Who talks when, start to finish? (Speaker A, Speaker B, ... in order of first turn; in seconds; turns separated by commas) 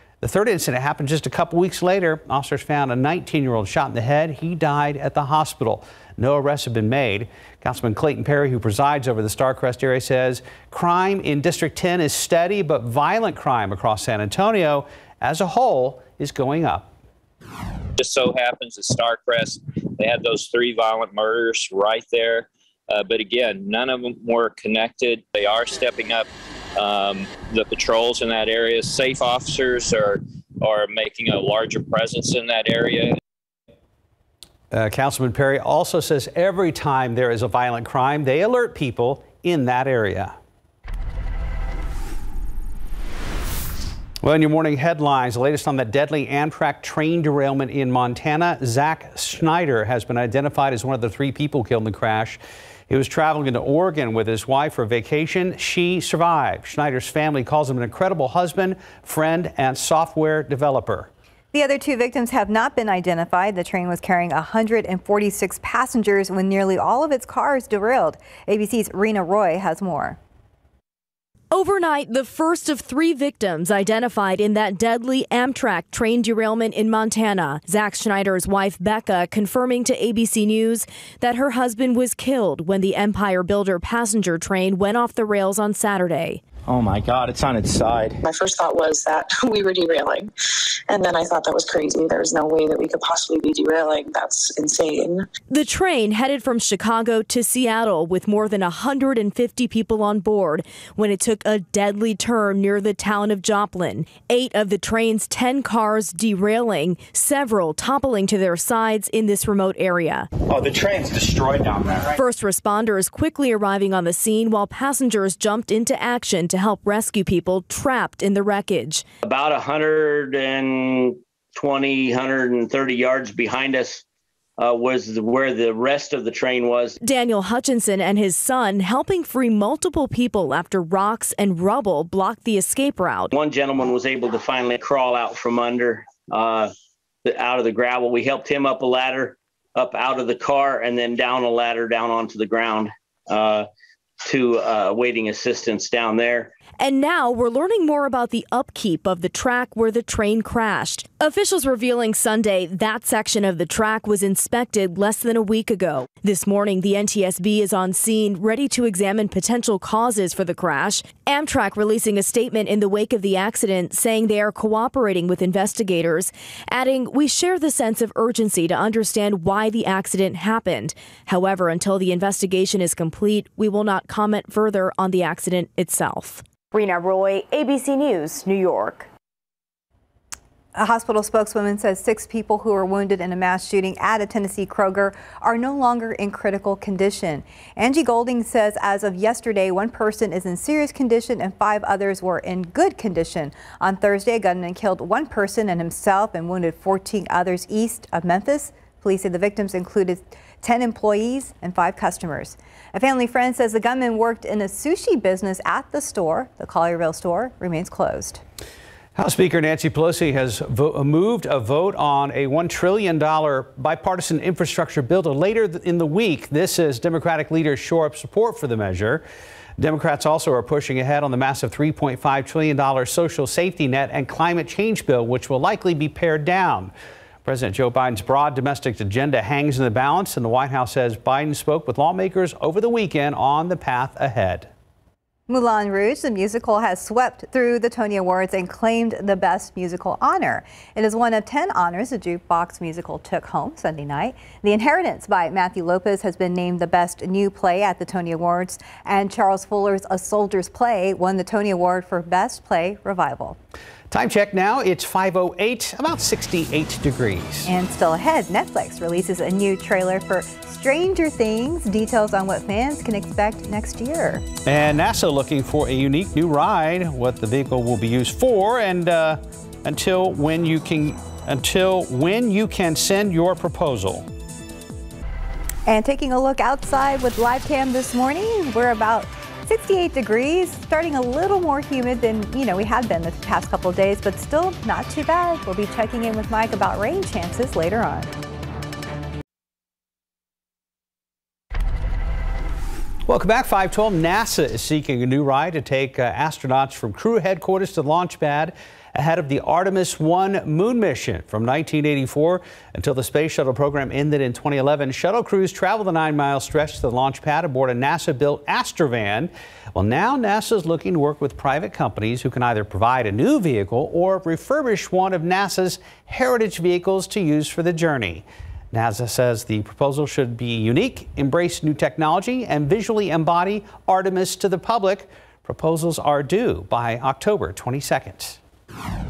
Speaker A: 0.2-16.9, Speaker B: 18.0-33.1, Speaker A: 34.7-40.4, Speaker A: 44.2-61.1, Speaker C: 61.5-70.2, Speaker D: 71.5-86.4, Speaker E: 86.7-88.2, Speaker F: 88.2-90.3, Speaker F: 90.9-95.2, Speaker D: 95.5-110.3, Speaker E: 110.5-112.2, Speaker D: 112.1-119.0, Speaker G: 119.2-124.0, Speaker G: 124.6-127.0, Speaker D: 127.0-133.3, Speaker G: 133.3-136.7, Speaker G: 137.2-143.7, Speaker G: 144.2-146.5, Speaker D: 146.8-176.4, Speaker H: 176.7-179.0, Speaker C: 180.7-208.4, Speaker A: 209.2-219.2, Speaker A: 219.8-226.9, Speaker A: 227.4-234.7, Speaker C: 235.5-253.6, Speaker A: 254.1-257.7, Speaker C: 257.6-264.4, Speaker A: 264.6-274.2, Speaker C: 275.9-288.3, Speaker A: 293.3-328.6